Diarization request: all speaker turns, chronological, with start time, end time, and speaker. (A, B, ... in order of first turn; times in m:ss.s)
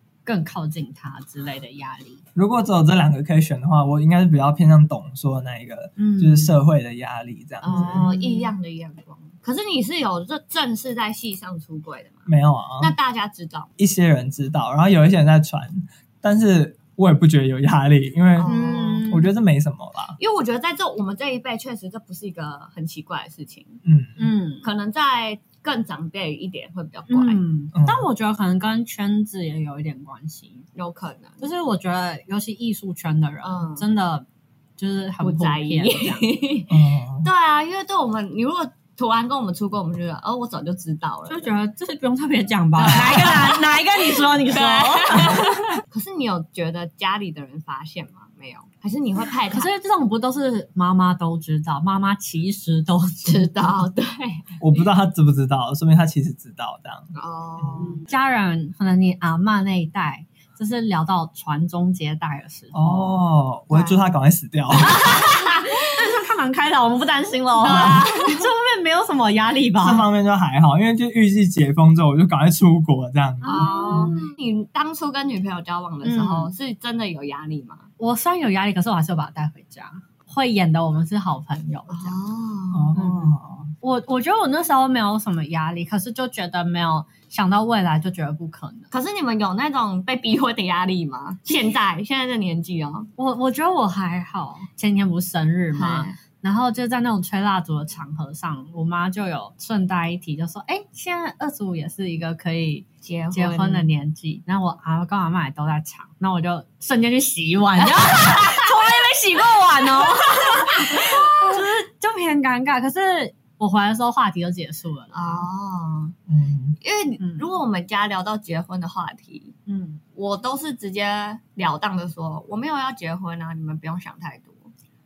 0:00.2-0:02.2 A
0:02.4-0:08.1 B
0:06.0-0:06.6 A
0:07.6-0:08.5 A
0:07.7-0:12.3 C
0:12.3-0:12.9 B
0:12.8-0:13.7 C
0:13.8-0:18.5 B
0:18.4-0:19.1 C
0:18.4-0:19.3 A
0:19.0-0:20.2 B
0:20.2-0:23.8 C
0:23.8-0:24.3 B
0:24.2-0:24.7 A
0:24.6-0:27.4 C
0:27.1-0:30.7 A
0:27.7-0:28.1 B
0:30.8-0:31.4 C
0:31.4-0:34.2 A
0:33.4-0:33.8 C
0:34.8-0:36.2 A
0:35.2-0:41.5 C
0:36.7-0:37.3 B
0:41.3-0:45.7 A
0:42.8-0:49.7 C
0:49.5-0:53.5 A
0:53.2-0:54.8 C
0:54.6-0:57.8 B
0:57.1-0:58.0 C
0:57.8-1:03.2 A
1:02.7-1:05.1 B
1:03.7-1:04.1 C
1:04.8-1:10.1 A
1:05.3-1:05.9 C
1:07.6-1:08.4 C
1:07.7-1:08.0 B
1:09.8-1:14.2 B
1:13.4-1:14.3 A
1:13.4-1:17.9 C
1:16.0-1:16.5 A
1:18.0-1:22.2 A
1:21.9-1:22.9 C
1:22.7-1:23.7 B
1:22.9-1:28.9 A
1:28.9-1:33.1 C
1:33.2-1:55.5 A
1:35.7-1:36.2 C
1:43.0-1:43.9 C
1:48.0-1:48.7 C
1:50.0-1:51.6 C
1:55.1-1:56.1 C
1:56.3-1:56.8 B
1:56.8-1:59.6 C
1:57.2-1:57.4 A
1:59.7-2:00.0 A
2:00.2-2:04.7 C